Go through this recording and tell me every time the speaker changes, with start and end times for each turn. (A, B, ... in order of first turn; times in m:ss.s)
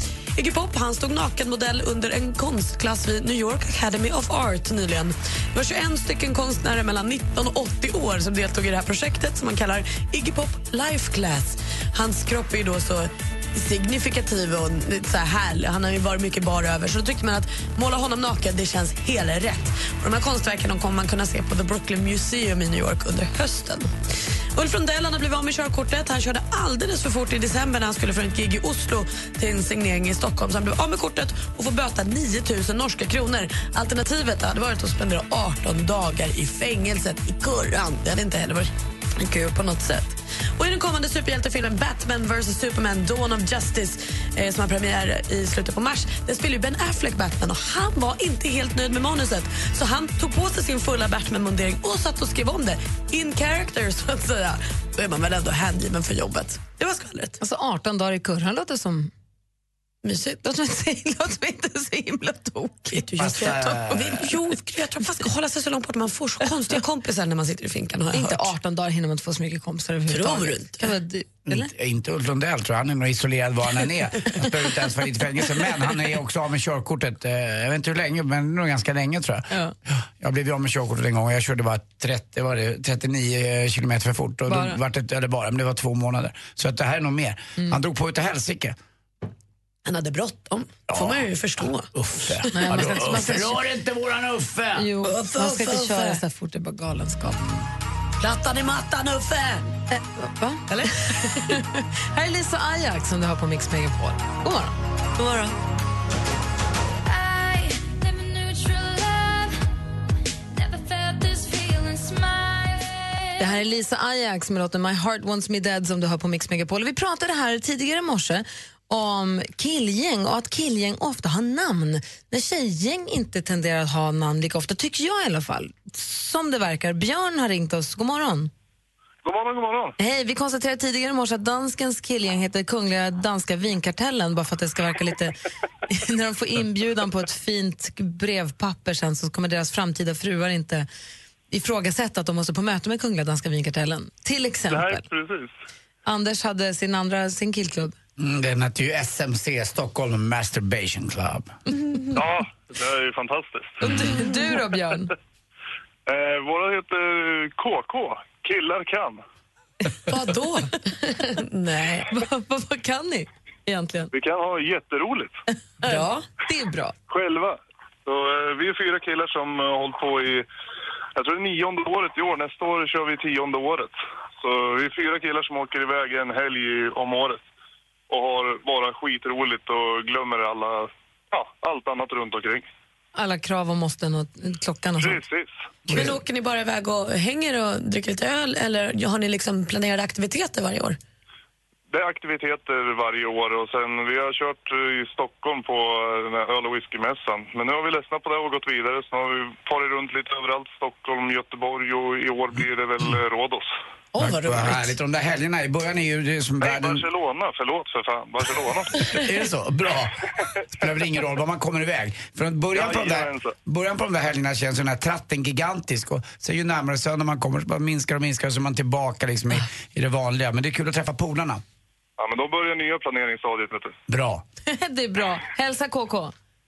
0:00.4-0:23.9 A
0:24.6-0:57.4 A
0:57.4-0:59.1 B
1:00.0-1:00.4 A
1:00.4-1:03.1 B
1:02.9-1:08.5 A
1:03.2-1:04.4 C
1:08.1-1:11.7 B
1:10.1-1:10.9 A
1:11.5-1:28.8 C
1:24.5-1:24.8 B
1:29.8-1:32.5 A
1:30.9-1:34.9 C
1:32.5-1:33.6 B
1:34.8-1:37.7 B
1:35.0-1:36.2 A
1:38.2-1:39.7 A
1:39.9-1:44.7 B
1:40.7-1:41.6 A
1:45.2-1:45.6 A
1:47.0-1:49.6 D
1:50.5-1:53.6 D
1:53.4-2:08.5 B
2:09.2-2:10.0 E
2:10.0-2:15.4 B
2:15.9-2:20.9 B
2:21.5-2:25.0 B
2:24.7-2:25.5 E
2:26.0-2:28.0 B
2:28.2-2:31.5 C
2:32.1-2:34.0 E
2:33.8-2:34.2 C
2:33.9-2:35.1 B
2:36.1-2:39.2 E
2:40.1-2:42.1 A
2:42.1-2:44.1 B
2:44.1-2:45.4 E
2:45.8-2:47.0 B
2:45.8-2:46.3 A
2:47.1-2:50.5 E
2:51.2-2:57.4 E
2:58.1-3:02.7 E
3:03.2-3:05.2 B
3:05.0-3:05.5 E
3:05.9-3:06.2 C
3:05.9-3:11.0 A
3:11.9-3:23.7 E
3:24.1-3:25.0 A
3:24.2-3:27.1 C
3:26.6-3:29.2 E
3:29.1-3:30.2 C
3:30.7-3:41.6 C
3:32.7-3:33.6 E
3:42.2-3:44.0 E
3:44.1-3:44.4 C
3:44.7-3:46.3 B